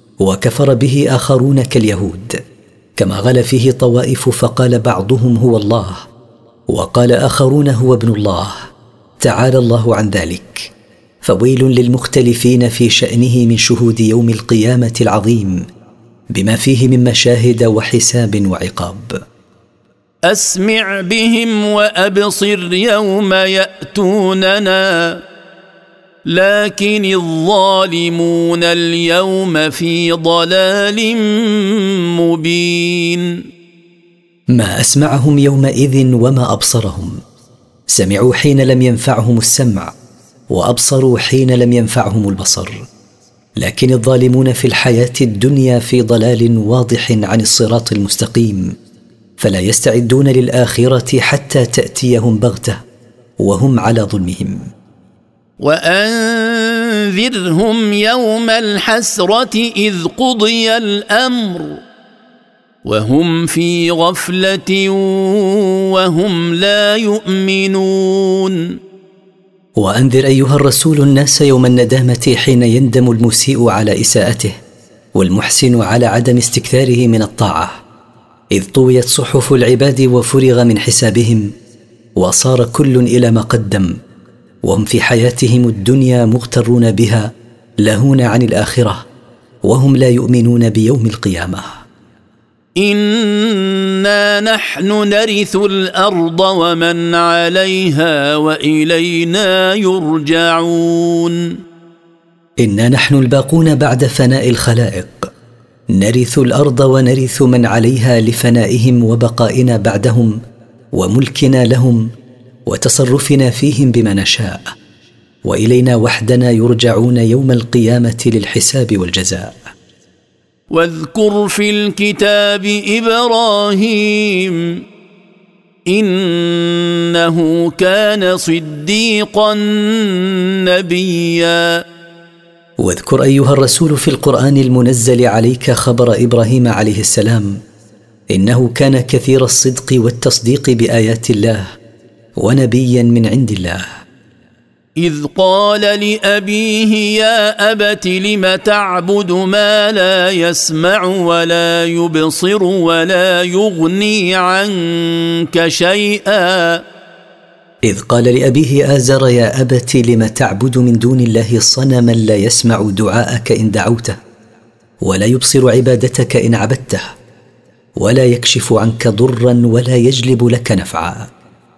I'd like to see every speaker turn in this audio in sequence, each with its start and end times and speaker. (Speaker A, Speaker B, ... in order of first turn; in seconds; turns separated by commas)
Speaker A: 0.2-2.4, Speaker A: 3.0-6.0, Speaker A: 6.7-8.6, Speaker A: 9.2-15.7, Speaker A: 16.3-19.2, Speaker B: 20.3-25.2, Speaker B: 26.3-33.4, Speaker A: 34.5-37.2, Speaker A: 37.9-39.9, Speaker A: 40.5-42.8, Speaker A: 43.6-48.8, Speaker A: 49.4-52.8, Speaker A: 53.4-54.7, Speaker B: 55.6-61.8, Speaker B: 62.9-68.7, Speaker A: 69.8-74.5, Speaker A: 75.2-77.8, Speaker A: 78.5-81.5, Speaker A: 82.2-84.0, Speaker A: 84.6-87.3, Speaker A: 87.8-89.0, Speaker A: 89.6-91.7, Speaker B: 92.8-101.5, Speaker A: 102.6-105.3, Speaker A: 105.9-110.4, Speaker A: 110.9-112.1, Speaker A: 112.7-114.7, Speaker A: 115.5-119.6, Speaker B: 120.7-124.8, Speaker B: 125.9-131.8, Speaker A: 132.8-137.6, Speaker A: 138.3-141.7, Speaker A: 142.4-143.8, Speaker B: 145.0-156.8, Speaker A: 157.9-164.2, Speaker A: 165.0-167.1, Speaker A: 168.0-171.3